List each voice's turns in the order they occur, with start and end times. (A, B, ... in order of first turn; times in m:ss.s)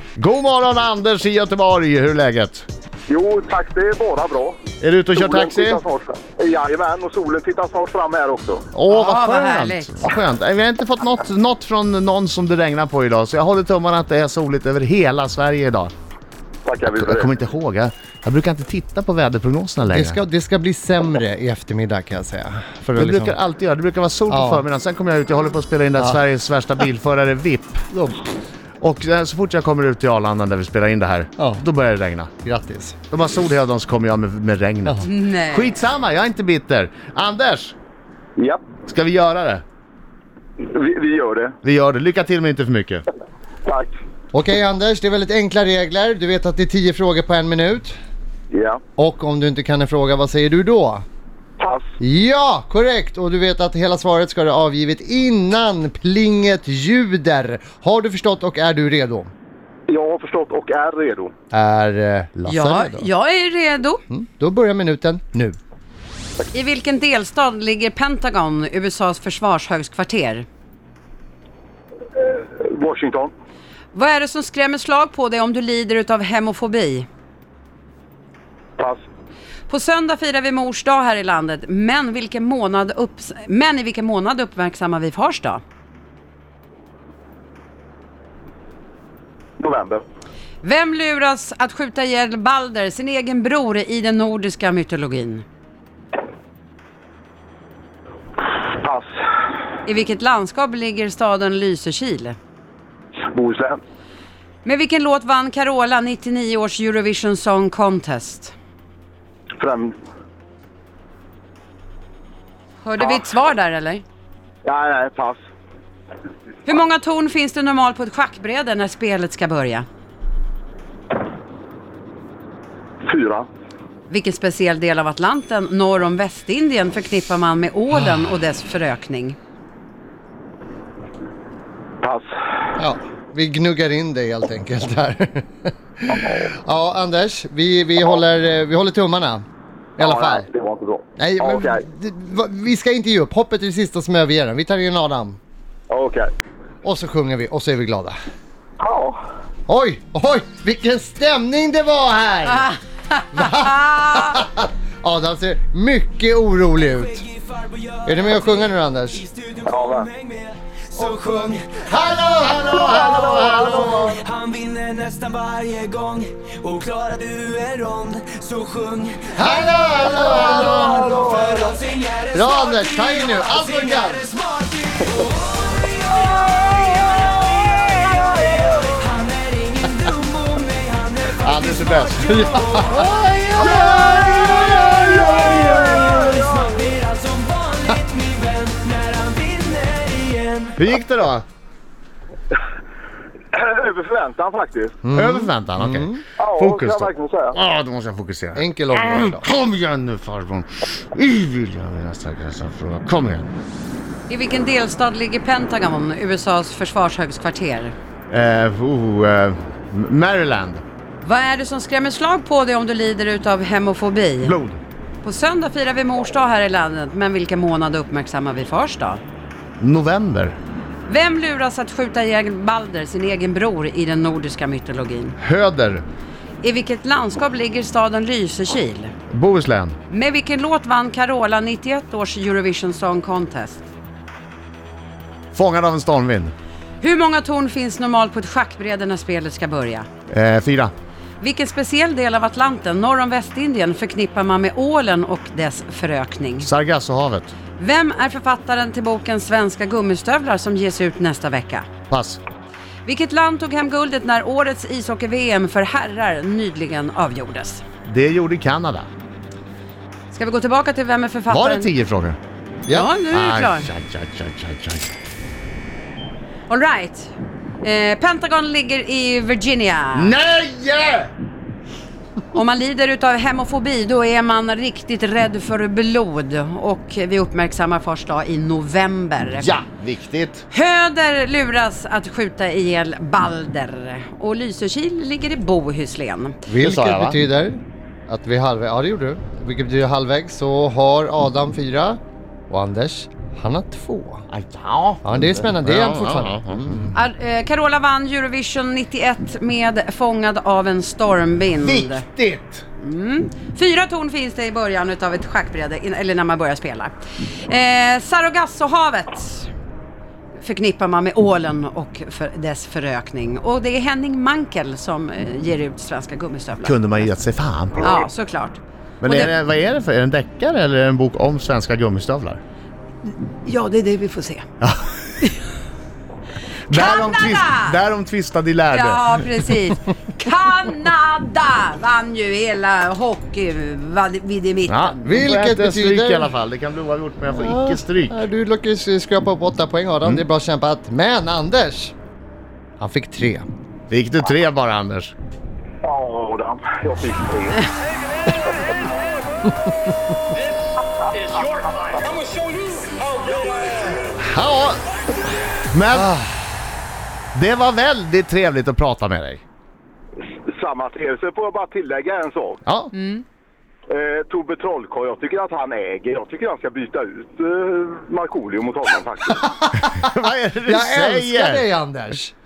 0:00.2-0:02.7 A
0:03.1-0:04.6 B
0:04.8-0:05.8 A
0:05.1-0:08.6 B
0:08.7-0:15.9 A
0:08.9-0:10.0 C
0:16.6-0:17.3 B
0:16.9-0:20.2 A
0:19.9-0:23.4 D
0:23.0-0:27.9 A
0:24.3-0:24.6 D
0:27.9-0:28.2 D
0:28.8-0:32.3 A
0:31.4-0:31.6 D
0:32.4-0:33.0 D
0:33.1-0:37.7 A
0:35.0-0:35.8 C
0:38.4-0:38.6 B
0:38.9-0:39.6 A
0:40.6-0:41.6 B
0:41.6-0:43.0 A
0:43.6-0:43.9 B
0:44.3-0:47.9 D
0:48.5-0:48.8 B
0:49.0-0:51.0 D
0:51.6-0:51.8 B
0:52.0-0:59.3 D
0:59.9-1:01.3 B
1:01.5-1:03.1 D
1:02.5-1:04.0 C
1:04.1-1:05.6 D
1:06.5-1:10.4 C
1:12.2-1:13.3 B
1:13.9-1:17.1 C
1:19.7-1:25.6 C
1:29.6-1:30.0 B
1:30.6-1:35.4 C
1:38.7-1:39.1 B
1:39.8-1:42.4 C
1:43.2-1:43.8 B
1:44.6-1:48.5 C
1:49.6-1:49.9 B
1:52.8-1:54.0 C
1:54.6-1:55.4 B
1:56.6-1:59.8 C
2:03.0-2:03.5 B
2:04.1-2:09.4 C
2:12.8-2:19.4 D
2:16.1-2:16.5 B
2:20.0-2:20.4 D
2:20.0-2:21.8 B
2:21.2-2:25.4 D
2:25.9-2:26.3 B
2:26.8-2:28.1 D
2:28.8-2:29.2 B
2:29.7-2:32.7 D
2:32.5-2:34.4 C
2:33.3-2:37.2 D
2:38.0-2:39.2 D
2:39.3-2:41.8 E
2:39.6-2:40.1 B
2:41.1-2:44.2 D
2:41.9-2:44.2 A
2:44.0-2:49.3 E
2:49.3-2:51.8 D
2:49.5-2:51.1 A
2:51.1-3:01.4 E
2:52.3-2:54.3 D
3:01.3-3:06.5 A
3:01.9-3:02.4 E
3:02.1-3:03.1 D
3:03.6-3:04.2 D
3:05.2-3:06.8 B
3:06.5-3:10.7 E
3:10.8-3:11.4 A
3:13.5-3:14.9 B
3:15.0-3:16.2 D
3:15.1-3:23.5 A
3:16.4-3:17.6 B
3:18.5-3:19.4 D
3:24.3-3:27.9 C
3:28.3-3:30.8 A
3:31.2-3:34.6 C
3:34.4-3:34.8 A
3:35.2-3:39.2 C
3:39.8-3:40.6 A
3:41.1-3:45.4 C
3:45.4-3:46.0 A
3:46.6-3:49.1 C
3:49.3-3:50.0 A
3:50.1-3:53.8 C
3:55.5-3:56.5 A
3:57.0-4:00.1 C
4:00.3-4:00.9 A
4:01.4-4:06.7 C
4:06.6-4:07.5 A
4:07.8-4:11.9 C
4:12.1-4:12.4 A
4:13.0-4:17.8 C
4:18.1-4:19.1 A
4:20.3-4:21.9 C
4:21.5-4:22.4 A
4:22.9-4:23.9 C
4:23.3-4:25.1 A
4:26.7-4:30.3 C
4:30.1-4:31.3 A
4:32.5-4:39.8 C
4:39.6-4:40.6 A
4:40.7-4:46.6 C
4:46.7-4:54.4 D
4:46.8-4:47.4 A
4:54.5-4:57.1 A
4:55.2-4:57.1 D
4:57.1-5:02.2 C
5:01.8-5:02.8 A
5:03.0-5:09.7 C
5:10.6-5:17.2 C
5:16.8-5:18.2 A
5:18.0-5:19.5 C
5:19.2-5:22.6 A
5:23.6-5:24.6 C
5:26.9-5:29.2 A
5:26.9-5:28.0 C
5:28.9-5:35.3 C
5:34.9-5:38.4 A
5:35.2-5:36.5 D
5:37.5-5:42.1 D
5:43.0-5:43.6 D
5:44.1-5:45.3 A
5:46.0-5:47.9 B
5:53.6-5:54.1 B
5:54.4-5:55.0 A
5:55.9-5:56.3 A
5:56.1-5:56.5 D
5:57.5-5:59.6 A
6:00.6-6:02.8 B
6:02.8-6:03.1 A
6:03.1-6:03.4 C
6:04.1-6:09.6 B
6:09.6-6:10.1 D
6:09.9-6:11.8 A
6:10.8-6:12.5 D